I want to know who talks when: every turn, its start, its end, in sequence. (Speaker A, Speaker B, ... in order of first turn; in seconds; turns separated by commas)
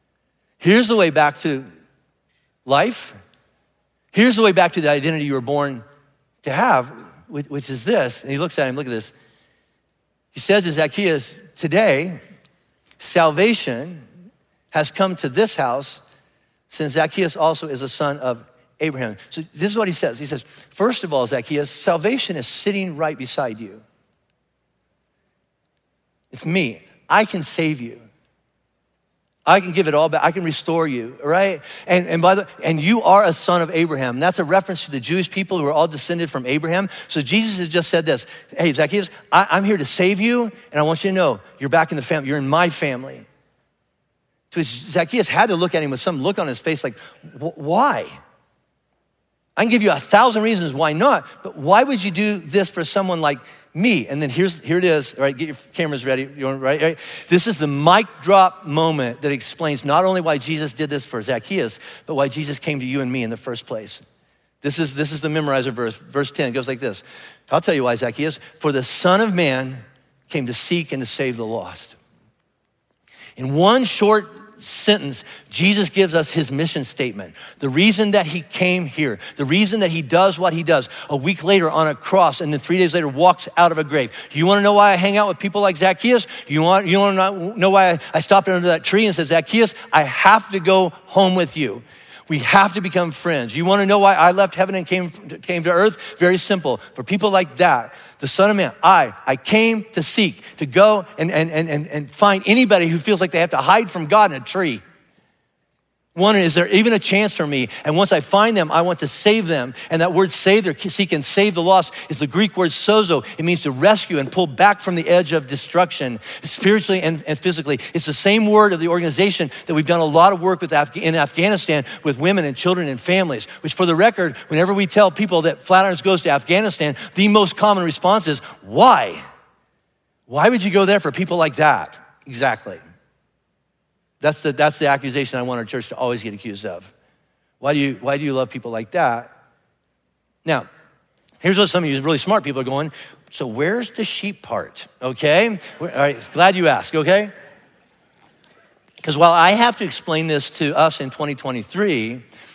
Speaker A: 0.6-1.7, Speaker A: 2.6-3.2, Speaker A: 4.1-5.8, Speaker A: 6.4-9.1, Speaker A: 10.3-12.2, Speaker A: 13.0-14.0, Speaker A: 14.7-16.0, Speaker A: 16.7-23.8, Speaker A: 26.3-28.0, Speaker A: 29.4-43.2, Speaker A: 44.5-48.1, Speaker A: 49.6-64.0, Speaker A: 64.6-72.0, Speaker A: 73.4-104.8, Speaker A: 106.1-129.2, Speaker A: 130.3-132.8, Speaker A: 134.2-136.9, Speaker A: 137.6-139.3, Speaker A: 141.4-147.3, Speaker A: 149.0-152.2